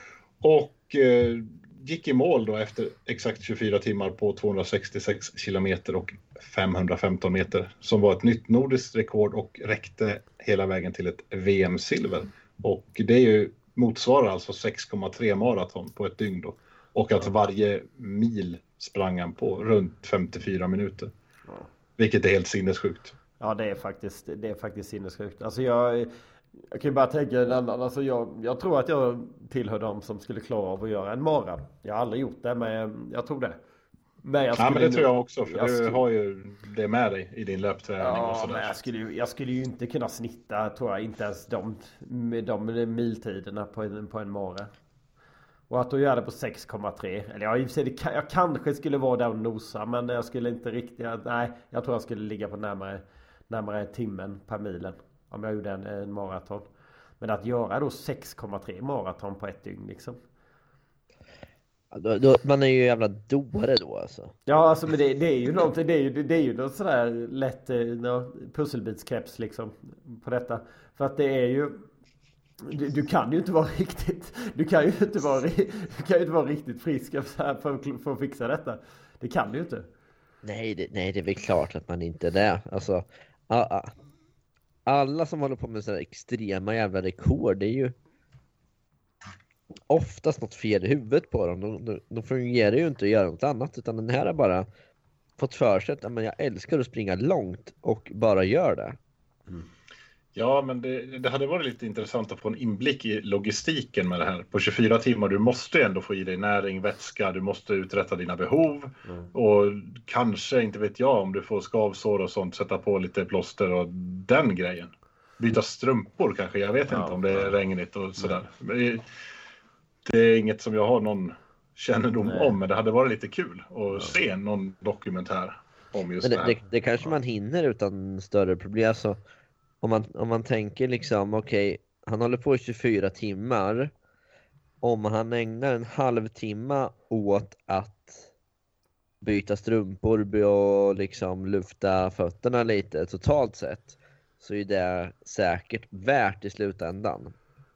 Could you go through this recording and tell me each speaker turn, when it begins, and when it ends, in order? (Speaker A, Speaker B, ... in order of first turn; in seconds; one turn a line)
Speaker A: 0.4-21.1
Speaker A: 22.0-23.1
Speaker B: 23.4-33.6
Speaker B: 34.2-36.0
Speaker A: 34.6-38.8
Speaker B: 38.0-44.7
Speaker B: 45.7-56.7
Speaker B: 57.2-60.2
Speaker C: 61.9-64.3
Speaker B: 64.5-71.8
Speaker B: 72.6-79.9
Speaker C: 80.4-83.9
Speaker C: 84.9-88.0
Speaker C: 89.9-94.7
Speaker C: 95.4-99.0
Speaker A: 100.3-119.1
Speaker B: 116.9-117.5
Speaker A: 120.1-126.7
Speaker B: 122.2-122.5
Speaker C: 126.2-129.2
Speaker C: 129.8-133.9
Speaker C: 134.8-138.3
Speaker C: 139.2-147.3